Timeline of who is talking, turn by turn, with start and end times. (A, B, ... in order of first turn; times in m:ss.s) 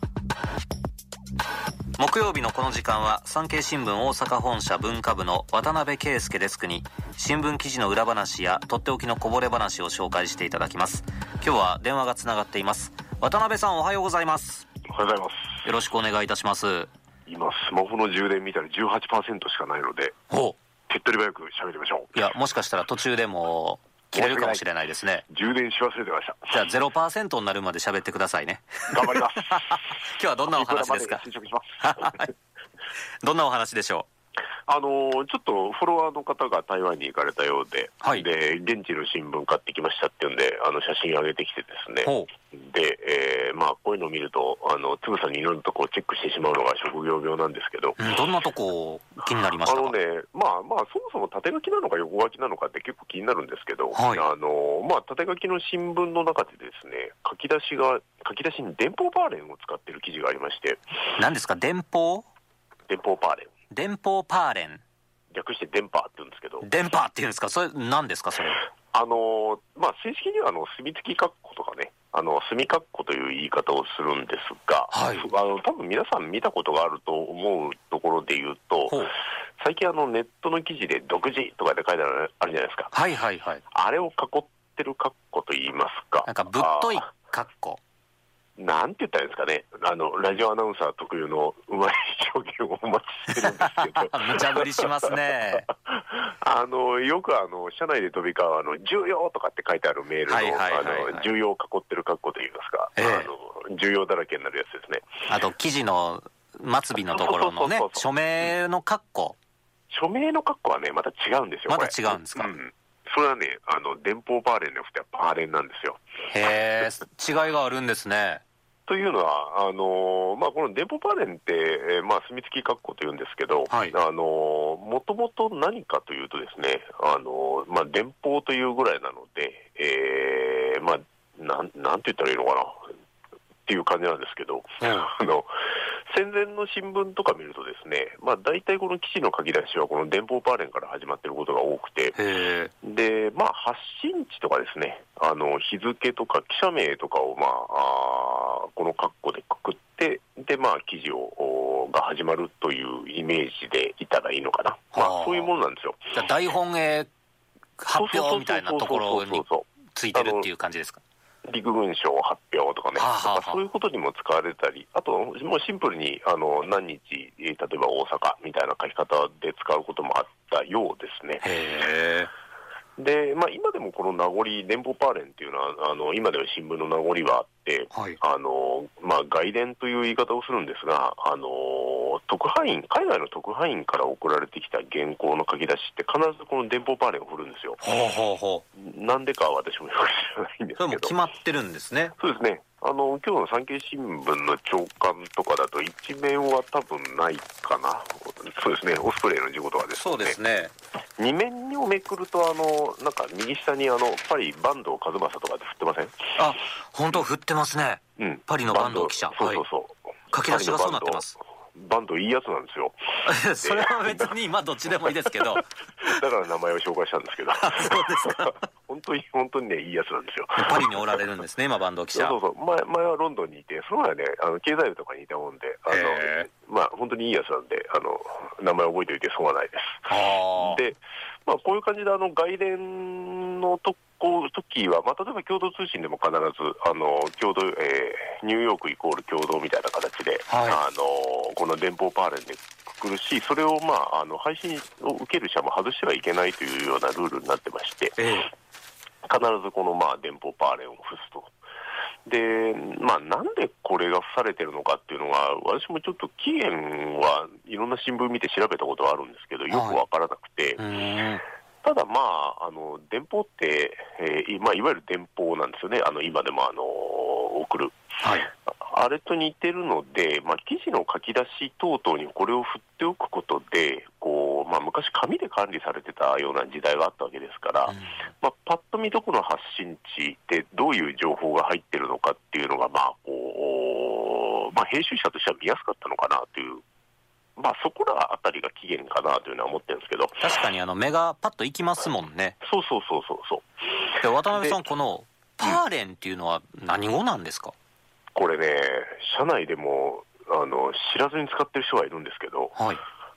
0:02.0-0:14.7 A
0:14.9-0:15.5 B
0:15.6-0:16.9 A
0:17.3-0:20.2 B
0:20.3-0:20.6 A
0:20.9-0:22.2 B
0:22.1-0:25.2 A
0:24.1-0:24.6 B
0:25.3-0:26.6 B
0:26.5-0:31.2 A
0:28.9-0:29.9 B
0:30.5-0:32.2 B
0:31.8-0:32.3 A
0:33.2-0:34.1 A
0:34.7-0:48.0 B
0:42.0-0:42.3 A
0:48.0-0:50.0 A
0:49.6-1:00.8 B
0:53.9-0:54.3 A
1:01.2-1:02.3 A
1:02.9-1:03.5 B
1:03.7-1:04.8 A
1:05.3-1:06.7 B
1:06.6-1:08.6 A
1:08.9-1:22.9 B
1:14.9-1:15.3 A
1:22.9-1:23.6 A
1:23.7-1:27.1 B
1:26.3-1:27.8 A
1:28.6-1:35.1 B
1:33.3-1:35.7 A
1:35.7-1:45.1 B
1:40.3-1:41.3 A
1:43.0-1:43.3 A
1:45.3-1:49.4 A
1:47.0-1:48.1 B
1:49.9-1:56.0 B
1:51.7-1:52.5 A
1:56.3-1:58.4 A
1:58.9-2:12.9 B
2:03.7-2:04.0 A
2:13.7-2:15.5 B
2:14.8-2:15.1 A
2:16.1-2:22.2 B
2:22.2-2:22.7 A
2:22.8-2:36.2 B
2:34.9-2:35.5 A
2:36.1-2:37.1 A
2:37.8-2:41.0 A
2:37.9-2:40.5 B
2:41.4-2:51.4 B
2:43.0-2:43.6 A
2:51.4-2:52.3 A
2:53.0-3:07.8 B
2:57.9-2:58.2 A
3:07.8-3:08.6 A
3:08.8-3:11.2 B
3:10.8-3:12.2 A
3:12.2-3:20.4 B
3:20.0-3:20.7 A
3:21.2-3:26.4 B
3:26.4-3:29.6 A
3:28.2-3:33.0 B
3:30.3-3:31.4 A
3:33.2-3:35.6 A
3:33.6-3:34.4 B
3:35.1-3:41.1 B
3:37.6-3:38.6 A
3:40.6-3:42.4 A
3:42.1-4:08.2 B
3:45.9-3:46.5 A
3:50.1-3:50.8 A
4:00.5-4:00.8 A
4:08.2-4:08.5 A
4:09.2-4:11.5 B
4:12.3-4:20.8 B
4:19.7-4:20.0 A
4:20.8-4:21.4 A
4:21.8-4:28.0 B
4:28.2-4:28.5 A
4:28.7-4:46.8 B
4:37.9-4:38.2 A
4:47.6-4:50.4 B
4:50.4-4:52.6 A
4:52.6-4:54.8 B
4:54.2-4:57.7 A
4:58.4-5:02.8 B
5:02.8-5:03.0 A